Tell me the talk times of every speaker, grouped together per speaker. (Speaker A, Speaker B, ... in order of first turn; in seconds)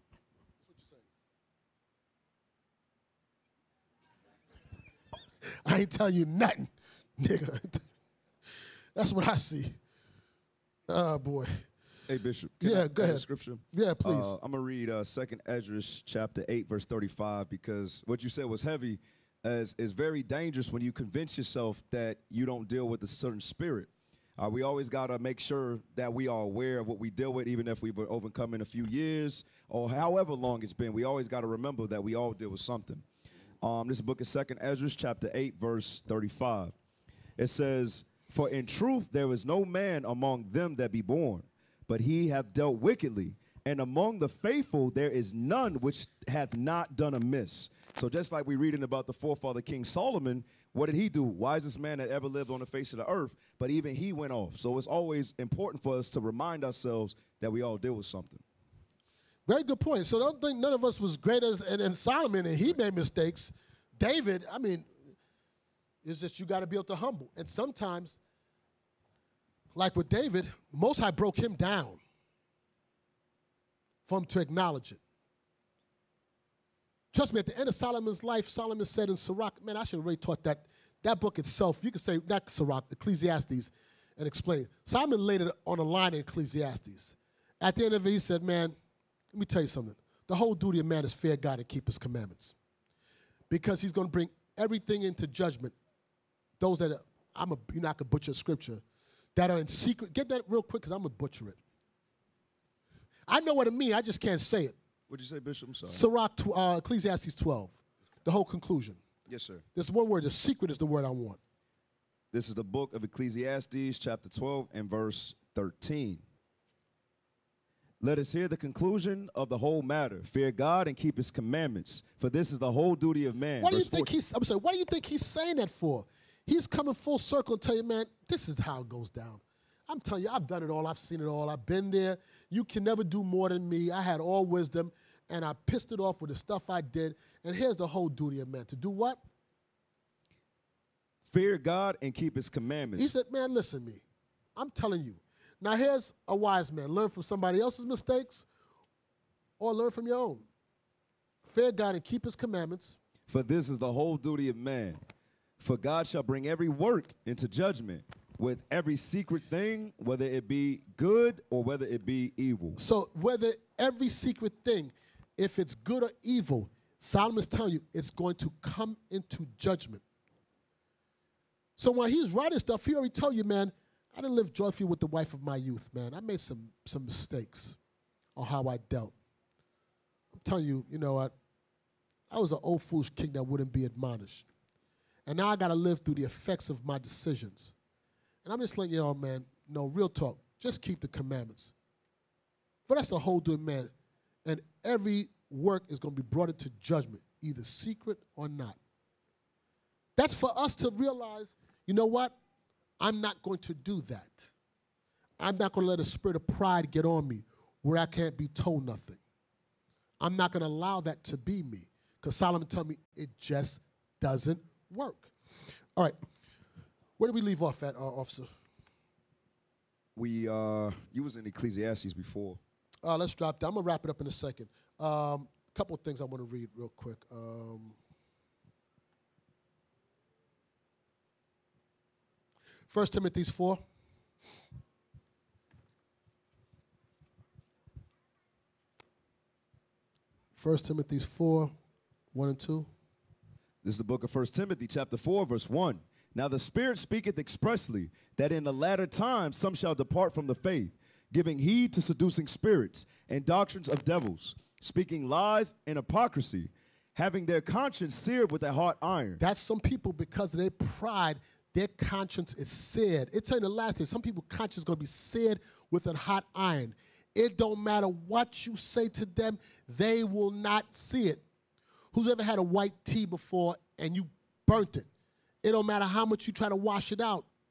Speaker A: 0.7-1.0, 5.6-7.8, 8.9-9.8, 10.9-11.6, 12.6-14.3, 59.5-64.9, 66.0-68.2, 69.7-72.0, 74.0-75.0, 77.1-88.8, 89.3-92.5, 93.5-95.7, 96.6-98.8, 99.3-101.6, 103.3-104.7, 105.8-109.0, 109.7-111.4, 123.6-139.2, 142.9-144.0, 144.6-148.4, 149.6-150.4, 151.4-153.0, 162.8-170.0, 171.8-177.8, 178.3-179.1, 180.3-181.3, 182.3-184.4, 185.2-187.7, 188.4-191.7, 192.9-193.9, 194.4-198.8, 200.2-202.3, 203.0-204.5, 205.4-209.2, 210.2-215.3, 217.2-218.5, 223.0-227.9, 232.9-233.8, 240.6-241.7, 242.3-242.9, 259.4-271.4, 272.1-275.1, 275.6-277.5
Speaker B: 12.1-33.0, 33.6-36.7, 37.4-58.4, 105.1-106.0, 109.3-109.6, 112.3-116.2, 118.0-124.1, 141.3-143.1, 153.3-155.0, 155.6-162.8, 220.2-222.6, 243.8-259.4